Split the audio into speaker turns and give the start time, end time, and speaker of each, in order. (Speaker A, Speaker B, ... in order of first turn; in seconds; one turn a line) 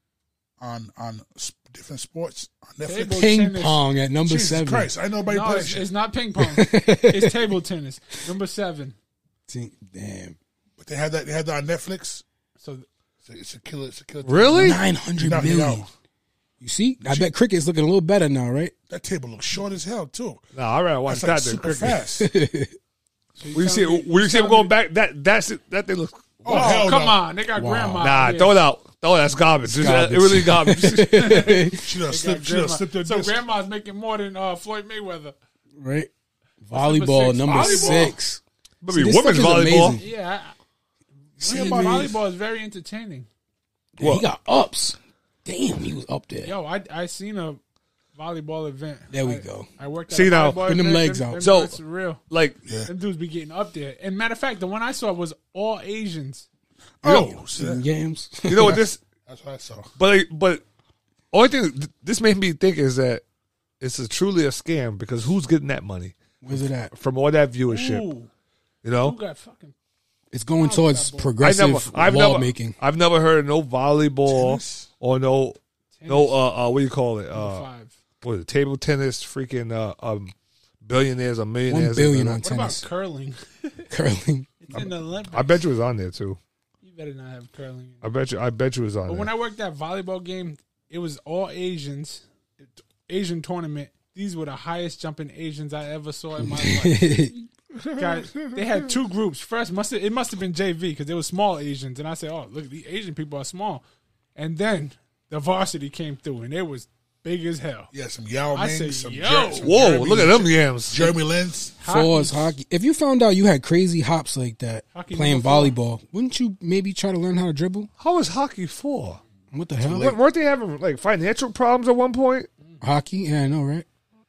Speaker A: 0.6-3.3
Speaker B: 2.8-3.8
Speaker C: 3.2-4.9
Speaker A: 4.2-5.9
Speaker B: 5.2-9.0
Speaker C: 6.4-7.5
Speaker C: 9.5-10.4
Speaker A: 10.8-12.2
Speaker B: 12.6-12.9
Speaker A: 13.2-15.9
Speaker D: 14.2-14.8
Speaker C: 14.6-15.9
Speaker C: 16.6-18.7
Speaker A: 17.0-17.3
Speaker A: 18.9-20.4
Speaker D: 20.5-22.0
Speaker A: 21.1-22.3
Speaker C: 22.1-22.8
Speaker B: 23.4-24.7
Speaker D: 23.5-26.8
Speaker A: 26.4-27.2
Speaker B: 26.5-28.7
Speaker C: 27.6-28.1
Speaker D: 28.0-31.4
Speaker C: 29.6-31.9
Speaker B: 31.1-35.4
Speaker A: 31.7-33.4
Speaker C: 35.8-36.1
Speaker C: 36.6-40.1
Speaker B: 36.7-38.2
Speaker A: 37.5-38.1
Speaker D: 38.8-40.0
Speaker B: 40.0-40.5
Speaker B: 41.4-43.3
Speaker C: 41.4-42.1
Speaker A: 41.4-42.2
Speaker C: 44.0-46.5
Speaker D: 44.0-44.2
Speaker B: 46.4-47.6
Speaker B: 48.1-52.2
Speaker C: 49.1-49.7
Speaker D: 50.1-50.7
Speaker C: 50.6-51.4
Speaker D: 51.4-51.8
Speaker D: 52.3-52.6
Speaker A: 52.6-52.9
Speaker B: 52.8-56.5
Speaker A: 57.0-57.8
Speaker C: 57.1-58.8
Speaker D: 58.5-59.0
Speaker A: 58.6-59.9
Speaker D: 60.0-60.6
Speaker D: 61.3-63.2
Speaker D: 63.8-68.1
Speaker C: 66.4-66.9
Speaker B: 67.7-68.3
Speaker D: 68.8-69.2
Speaker B: 69.0-69.7
Speaker C: 70.3-72.8
Speaker B: 70.6-71.3
Speaker D: 71.4-77.7
Speaker A: 74.3-74.9
Speaker B: 76.0-76.4
Speaker B: 77.3-77.9
Speaker D: 78.2-82.4
Speaker C: 81.7-82.8
Speaker B: 82.4-83.9
Speaker C: 83.9-84.8
Speaker B: 84.6-85.6
Speaker D: 84.7-86.4
Speaker B: 86.8-88.0
Speaker D: 88.0-89.3
Speaker B: 89.1-97.2
Speaker C: 96.4-97.4
Speaker A: 97.8-98.9
Speaker B: 98.0-103.8
Speaker B: 104.4-107.9
Speaker A: 107.9-111.8
Speaker B: 108.5-109.9
Speaker D: 109.6-111.2
Speaker B: 111.8-112.5
Speaker C: 111.8-117.9
Speaker B: 114.9-115.8
Speaker D: 118.0-119.2
Speaker C: 119.5-120.2
Speaker D: 119.8-122.5
Speaker C: 122.8-123.9